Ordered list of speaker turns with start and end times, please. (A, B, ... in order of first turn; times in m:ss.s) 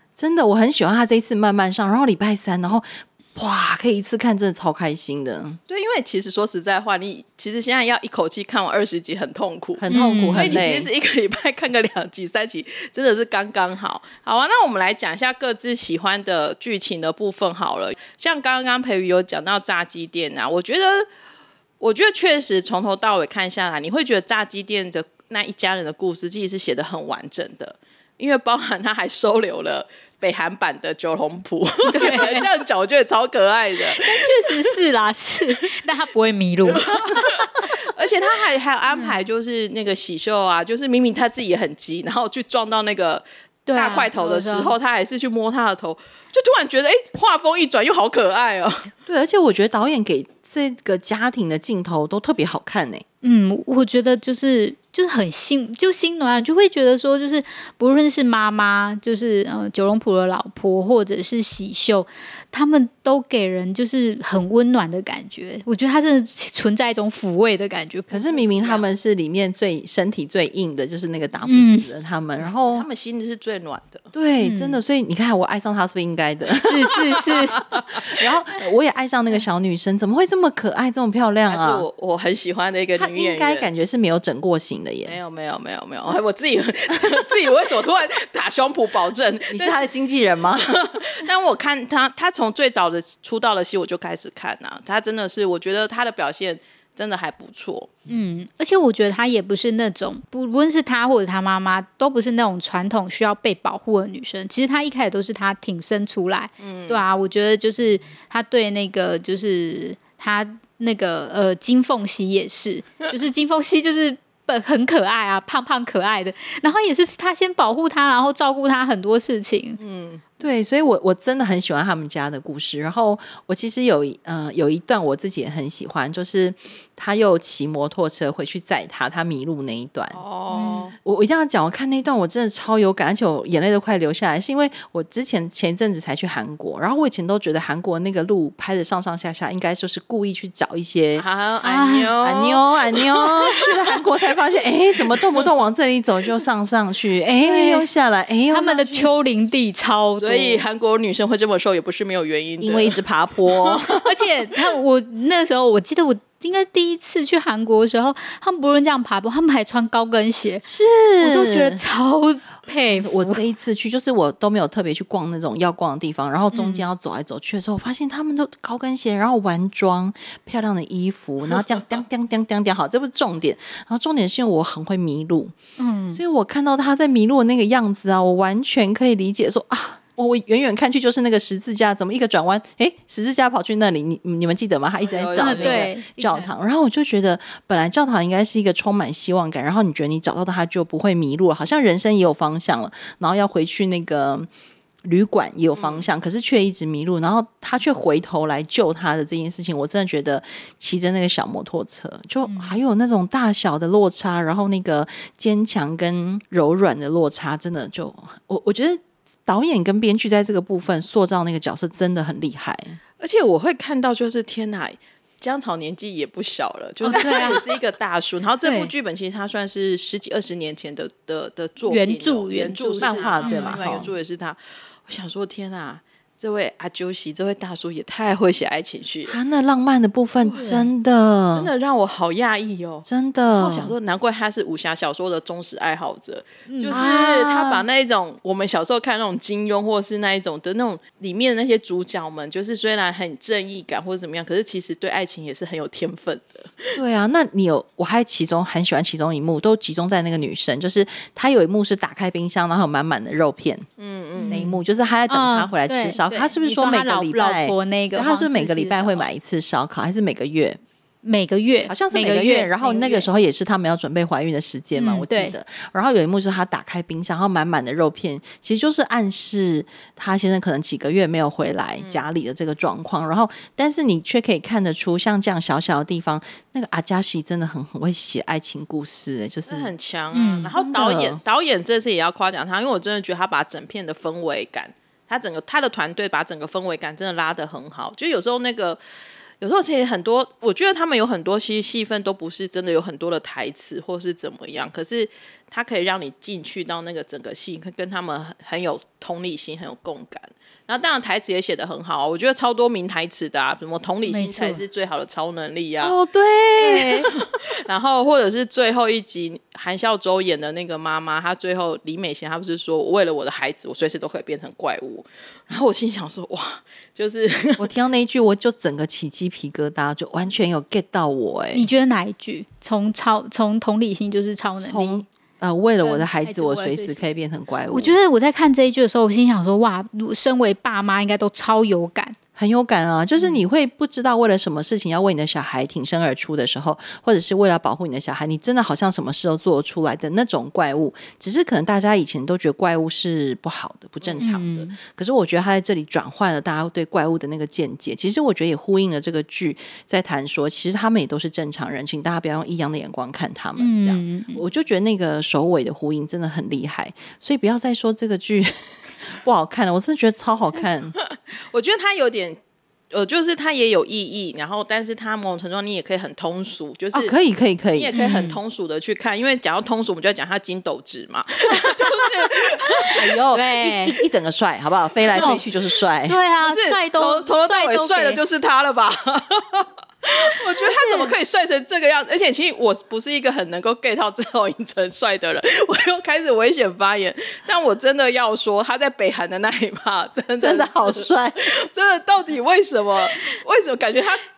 0:00.2-0:05.6 A
0:05.7-0:21.1 B
0:09.8-0:10.9 A
0:09.9-0:10.6 C
0:21.8-0:34.6 B
0:31.9-0:32.5 C
0:33.9-0:37.7 C
0:36.7-0:43.2 B
0:43.7-0:44.7 C
0:43.8-0:48.9 B
0:49.1-0:53.0 A
0:53.2-1:08.4 C
1:08.1-1:12.9 A
1:08.4-1:08.8 B
1:11.5-1:11.9 C
1:12.5-1:14.1 B
1:14.1-1:16.9 A
1:14.4-1:14.8 C
1:16.6-1:17.6 C
1:17.6-1:17.9 B
1:17.7-1:21.9 A
1:21.5-1:23.7 B
1:23.0-1:25.2 A
1:25.1-1:29.9 B
1:29.5-1:31.0 A
1:30.6-1:37.9 B
1:38.1-1:59.8 C
1:46.6-1:47.0 B
1:59.8-2:00.2 B
2:00.4-2:10.2 A
2:10.1-2:10.9 B
2:10.5-2:10.9 C
2:11.0-2:21.2 A
2:21.2-2:24.0 B
2:21.6-2:22.1 C
2:22.2-2:29.1 A
2:25.1-2:25.5 B
2:27.4-2:27.9 C
2:28.5-2:30.6 C
2:30.2-2:34.0 B
2:32.6-2:34.0 A
2:34.0-2:40.6 C
2:40.6-2:41.8 A
2:41.2-2:43.4 C
2:43.0-2:55.6 A
2:46.5-2:46.9 C
2:55.8-2:56.2 C
2:56.1-3:14.5 A
3:05.0-3:05.9 B
3:05.4-3:06.5 C
3:15.0-3:33.0 A
3:15.8-3:16.1 B
3:22.5-3:22.8 C
3:33.2-3:49.4 B
3:37.0-3:37.6 C
3:38.6-3:38.9 C
3:41.9-3:44.0 C
3:43.0-3:44.1 A
3:49.3-3:51.7 A
3:50.4-3:50.8 B
3:51.5-4:07.0 B
3:53.1-3:54.0 A
3:56.7-3:57.0 C
3:56.9-3:57.8 A
4:07.0-4:13.9 A
4:14.0-4:14.6 B
4:14.4-4:14.8 C
4:14.5-4:20.8 A
4:15.3-4:19.2 C
4:21.2-4:23.3 C
4:21.9-4:39.9 A
4:25.0-4:25.6 C
4:32.0-4:32.2 B
4:39.7-4:49.0 B
4:40.3-4:40.7 C
4:40.7-4:41.4 A
4:49.6-5:06.2 B
5:04.3-5:04.8 C
5:06.0-5:07.3 A
5:06.8-5:07.3 C
5:07.3-5:17.9 B
5:17.8-5:21.9 A
5:21.7-5:25.2 C
5:24.8-5:28.2 A
5:26.0-5:27.2 C
5:27.9-5:32.4 C
5:32.6-6:01.2 A
5:44.2-5:44.5 B
5:44.4-5:45.0 C
5:53.8-5:54.6 C
6:01.3-6:02.6 B
6:03.1-6:07.3 B
6:07.1-6:08.1 A
6:08.0-6:13.1 B
6:08.1-6:08.6 C
6:12.9-6:14.2 C
6:13.1-6:16.4 A
6:15.3-6:15.6 B
6:15.4-6:15.6 C
6:16.3-6:18.4 C
6:16.6-6:34.4 B
6:20.8-6:21.3 A
6:30.6-6:31.6 A